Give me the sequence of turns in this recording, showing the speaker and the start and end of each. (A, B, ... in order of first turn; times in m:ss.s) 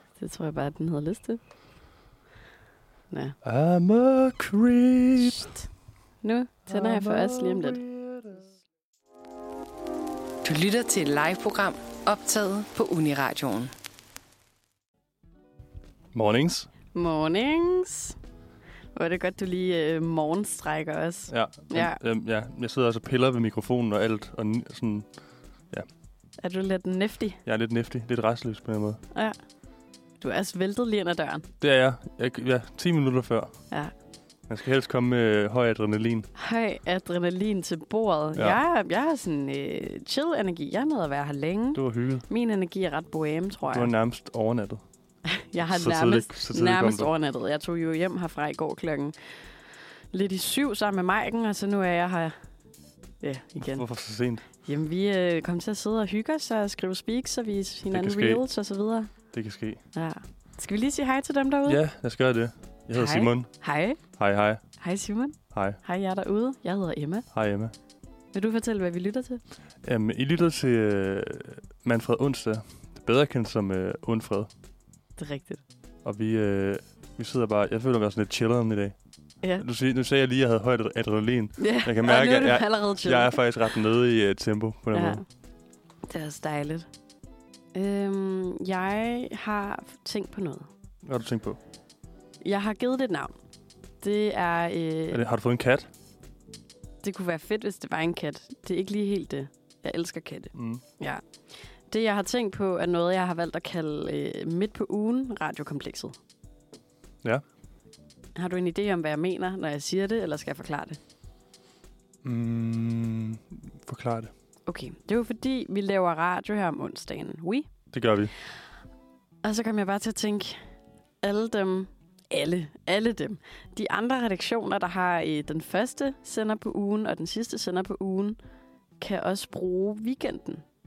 0:00.2-0:01.4 A
0:03.1-0:03.4 A
0:03.4-0:05.5 B
0:06.2-0:07.8 A
0:06.7-0:08.5 B
0:10.4-0:13.7 C
0:16.1-0:16.7 B
0:16.9-0:18.2 A
0:19.0-0:22.0 A
0:21.3-0:25.2 B
0:26.4-0:27.4 A
0:27.4-0:29.0 B
0:29.1-0:29.4 A
0:30.2-0:31.5 A
0:31.6-0:33.5 B
0:34.5-0:36.3 B
0:36.4-0:43.9 A
0:41.7-0:42.3 B
0:43.7-0:44.8 B
0:45.2-0:52.4 A
0:45.6-0:47.1 B
0:53.2-0:53.9 A
0:53.6-0:54.4 B
0:54.6-0:59.1 A
0:57.9-0:58.4 B
0:59.3-0:59.8 B
0:59.9-1:01.8 A
1:01.7-1:03.5 B
1:02.9-1:04.0 A
1:04.2-1:04.6 B
1:04.8-1:07.3 A
1:05.5-1:05.8 B
1:07.3-1:07.7 B
1:08.3-1:09.4 A
1:09.8-1:14.5 B
1:15.2-1:15.6 A
1:16.0-1:19.0 B
1:19.6-1:25.2 B
1:21.6-1:23.4 A
1:24.9-1:25.2 A
1:26.0-1:26.9 A
1:27.7-1:30.7 A
1:31.0-1:31.6 B
1:32.4-1:33.3 A
1:34.0-1:35.2 A
1:35.1-1:35.9 B
1:37.0-1:41.2 A
1:40.6-1:40.8 B
1:41.9-1:46.2 A
1:48.4-1:51.0 A
1:52.2-1:54.3 B
1:54.7-1:57.7 A
1:57.9-1:58.3 B
1:59.4-2:00.6 A
2:01.2-2:08.4 A
2:09.0-2:10.6 A